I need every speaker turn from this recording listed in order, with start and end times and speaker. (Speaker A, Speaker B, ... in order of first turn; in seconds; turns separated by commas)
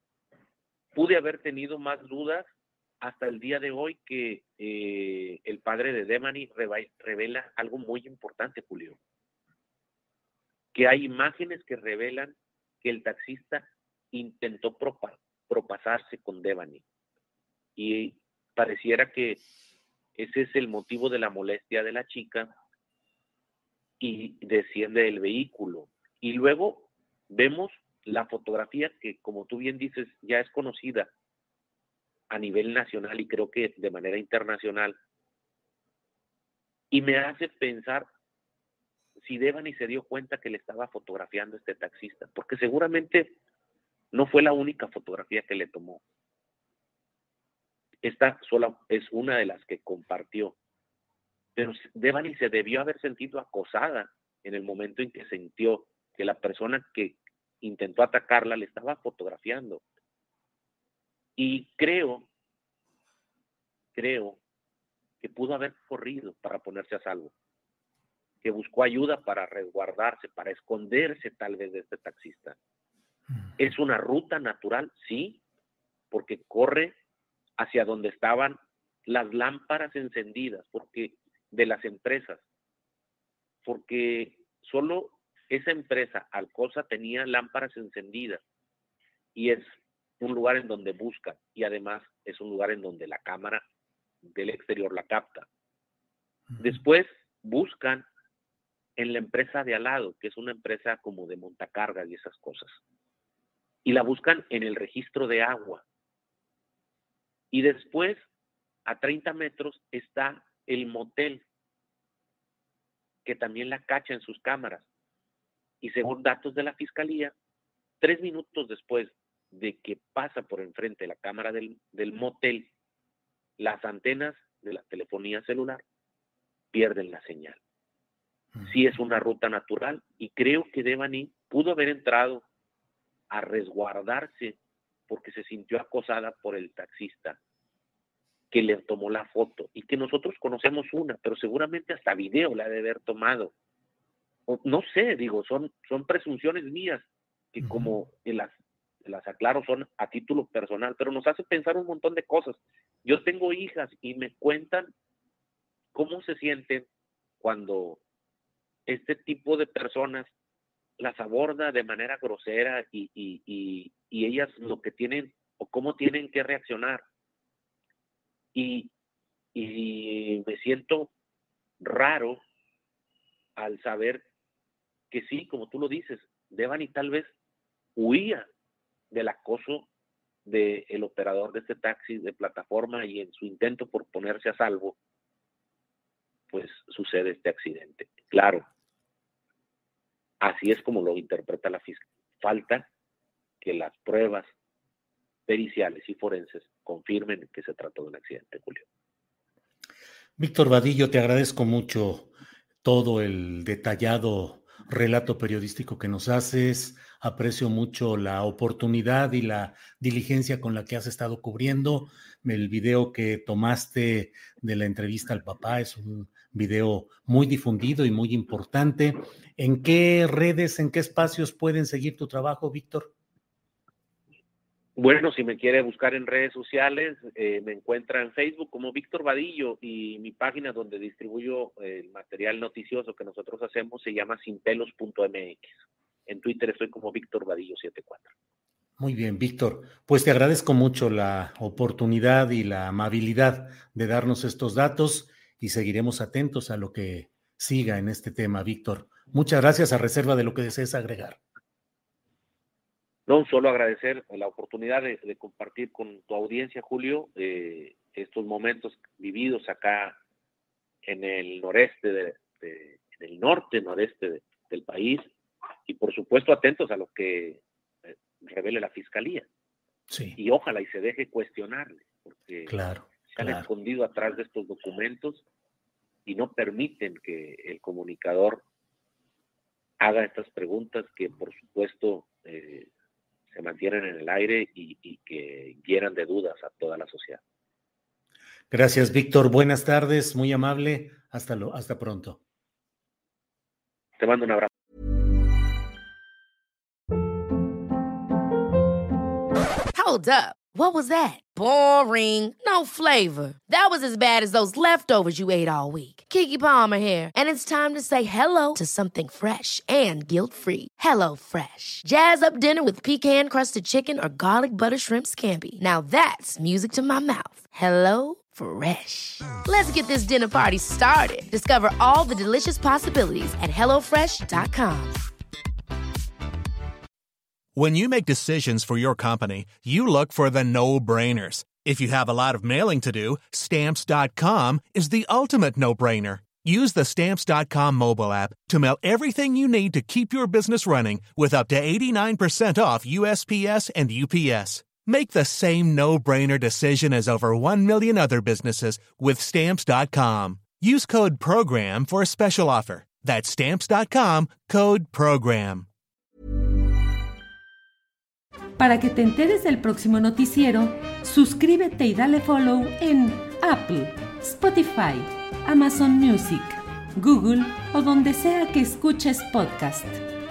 Speaker A: 0.9-2.5, Speaker A: 3.0-9.0, Speaker A: 10.7-16.8, Speaker A: 17.8-19.4, Speaker A: 20.1-22.5, Speaker A: 24.0-31.1, Speaker A: 32.3-35.0, Speaker A: 36.9-38.1, Speaker A: 39.2-43.3, Speaker A: 44.1-46.0, Speaker A: 48.0-50.5, Speaker A: 51.5-59.8, Speaker A: 61.4-62.3, Speaker A: 63.9-64.4, Speaker A: 65.2-67.3, Speaker A: 68.4-72.5, Speaker A: 73.6-75.4, Speaker A: 76.1-76.9, Speaker A: 77.6-82.4, Speaker A: 83.6-88.4, Speaker A: 89.3-89.6, Speaker A: 90.2-93.6, Speaker A: 94.2-95.5, Speaker A: 96.6-98.0, Speaker A: 99.0-102.8, Speaker A: 103.8-105.8, Speaker A: 107.5-108.2, Speaker A: 108.9-111.4, Speaker A: 113.2-114.9, Speaker A: 115.8-117.3, Speaker A: 118.0-122.7, Speaker A: 123.6-125.8, Speaker A: 126.7-127.6, Speaker A: 128.6-132.4, Speaker A: 133.3-137.4, Speaker A: 138.5-143.5, Speaker A: 144.5-148.5, Speaker B: 147.6-147.9, Speaker A: 149.0-154.9, Speaker A: 155.9-156.9, Speaker A: 157.4-158.0, Speaker A: 158.9-160.3, Speaker A: 161.0-167.0, Speaker A: 168.5-168.9, Speaker A: 169.5-171.1, Speaker A: 171.8-172.4, Speaker A: 173.6-174.2, Speaker A: 175.1-177.3, Speaker A: 178.0-178.4, Speaker A: 179.1-179.9, Speaker A: 180.4-184.9, Speaker A: 186.5-188.6, Speaker A: 190.4-192.9, Speaker A: 193.6-194.5, Speaker A: 195.5-198.8, Speaker B: 200.4-202.3, Speaker B: 202.8-223.1, Speaker A: 225.0-235.8, Speaker A: 236.3-238.3, Speaker B: 239.0-251.4, Speaker A: 253.3-260.2, Speaker A: 261.0-265.3, Speaker A: 265.9-269.4, Speaker B: 270.1-270.4, Speaker A: 270.4-275.4, Speaker B: 272.7-273.6, Speaker A: 276.2-278.6, Speaker A: 280.0-282.9, Speaker A: 283.5-287.4, Speaker B: 288.7-292.4, Speaker A: 294.2-294.7, Speaker C: 299.9-325.2, Speaker D: 327.8-355.9, Speaker E: 358.8-370.2